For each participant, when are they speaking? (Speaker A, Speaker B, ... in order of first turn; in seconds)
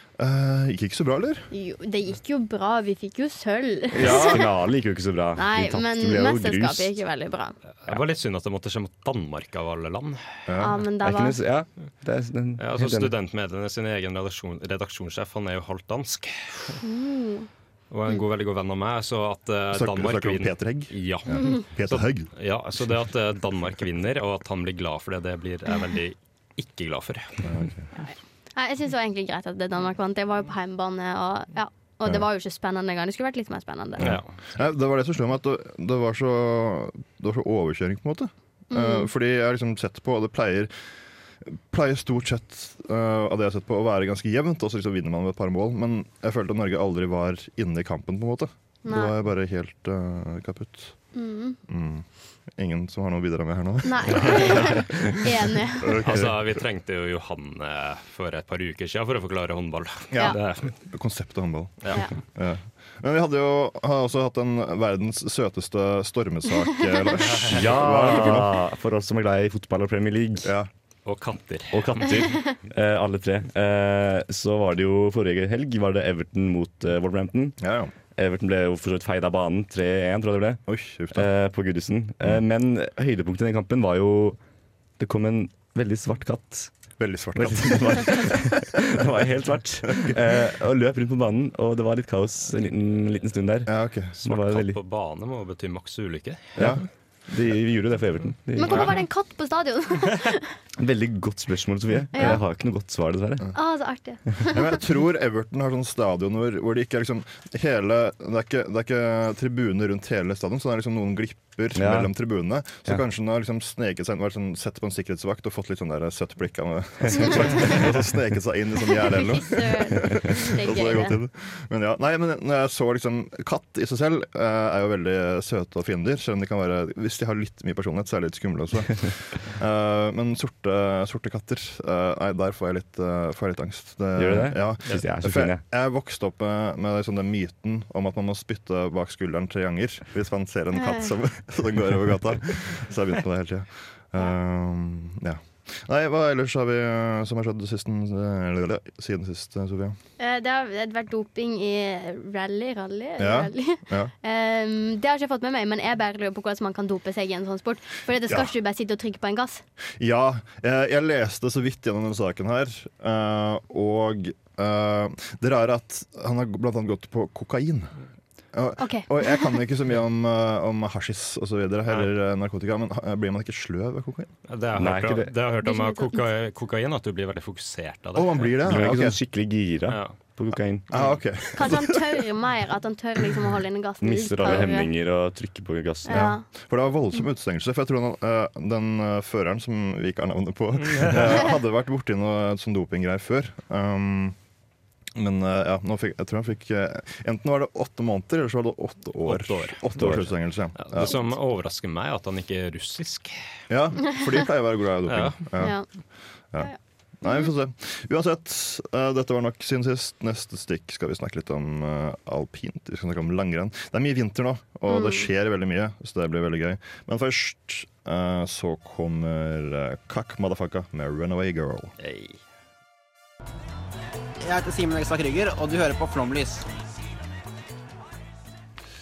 Speaker A: 0.2-1.5, 10.5-10.8, 19.7-22.3, 27.4-27.9, 34.0-40.7, 41.4-51.0, 51.7-56.5, 60.1-68.6, 70.4-70.7, 77.6-77.9, 80.7-81.3, 87.0-88.6, 93.7-94.1, 96.6-96.8, 104.5-150.0, 153.2-154.1, 160.0-168.0, 168.5-174.3, 178.2-179.2, 180.9-182.3, 186.1-194.4, 195.2-201.2, 203.7-205.9, 206.5-221.9
Speaker B: 1.5-4.5, 5.4-7.5, 10.6-11.4, 16.8-17.5, 28.0-34.2, 38.7-39.1, 48.9-49.1, 51.1-51.6, 53.8-56.0, 98.6-100.5, 102.1-102.4, 103.5-104.8, 117.2-117.8, 119.0-121.2, 140.8-141.1, 150.2-159.6, 168.8-169.6, 175.6-176.2, 181.6-184.9, 186.1-186.4, 205.6-205.9, 214.9-215.3
Speaker C: 3.9-7.0, 11.0-13.1, 67.4-70.5, 71.7-77.6, 78.2-84.4, 85.0-86.7, 87.3-94.8, 96.6-99.0, 100.8-103.5, 111.8-112.1, 134.2-135.6, 174.8-175.3, 178.6-180.9, 184.0-186.3, 200.0-200.3
Speaker D: 7.8-10.2, 12.6-16.8, 17.9-27.6, 34.0-34.3, 56.0-60.7, 67.3-67.6, 71.1-72.3, 94.2-96.5, 98.6-98.9, 174.5-178.6, 179.9-180.2, 190.9-191.2, 199.3-203.4, 205.1-205.4, 222.0-222.4
Speaker E: 224.4-226.7